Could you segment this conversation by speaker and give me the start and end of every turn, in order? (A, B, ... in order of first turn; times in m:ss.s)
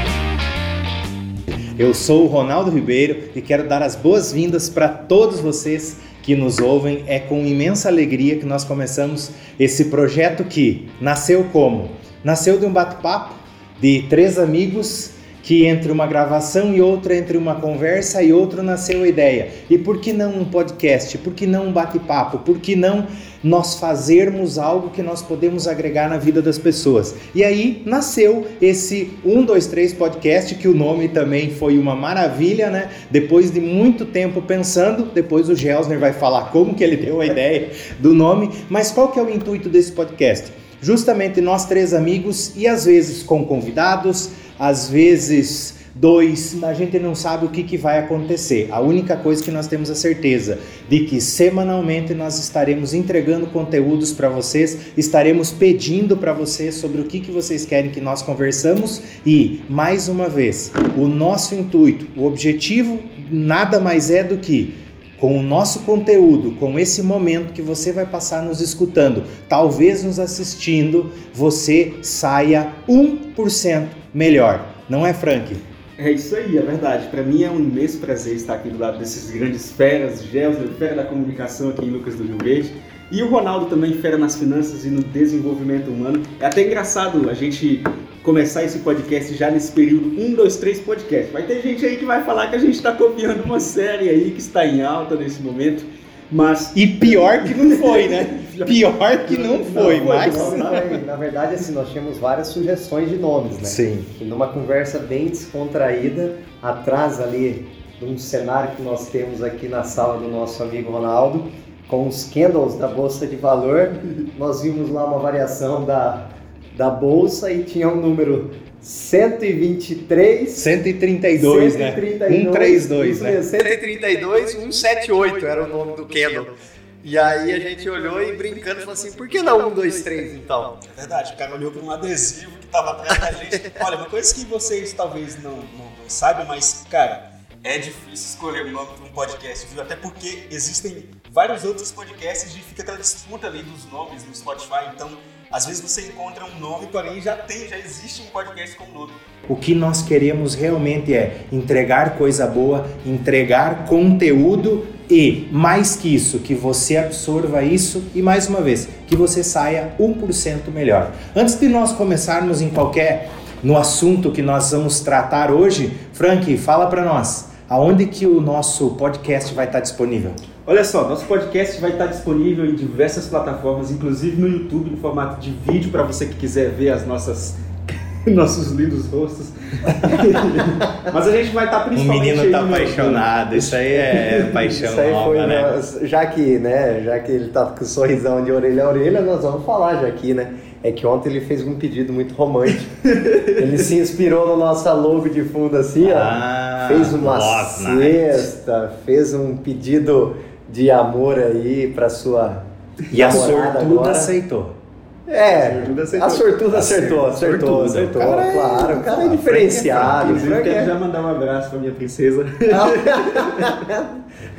0:01.8-1:15.6 A
1:16.0-1:41.0 B
1:36.7-1:40.6 A
1:39.8-2:00.6 C
1:43.6-1:44.1 A
2:00.5-2:03.4 A
2:01.4-2:10.8 C
2:10.9-2:29.2 B
2:29.5-2:50.4 A
2:50.6-3:04.7 B
3:01.9-3:05.8 A
3:04.7-3:24.3 C
3:13.2-3:13.5 B
3:16.0-3:18.4 A
3:23.1-3:24.8 A
3:25.3-3:30.9 C
3:25.5-3:26.6 B
3:26.7-3:30.5 A
3:30.2-3:33.8 B
3:32.7-3:34.2 C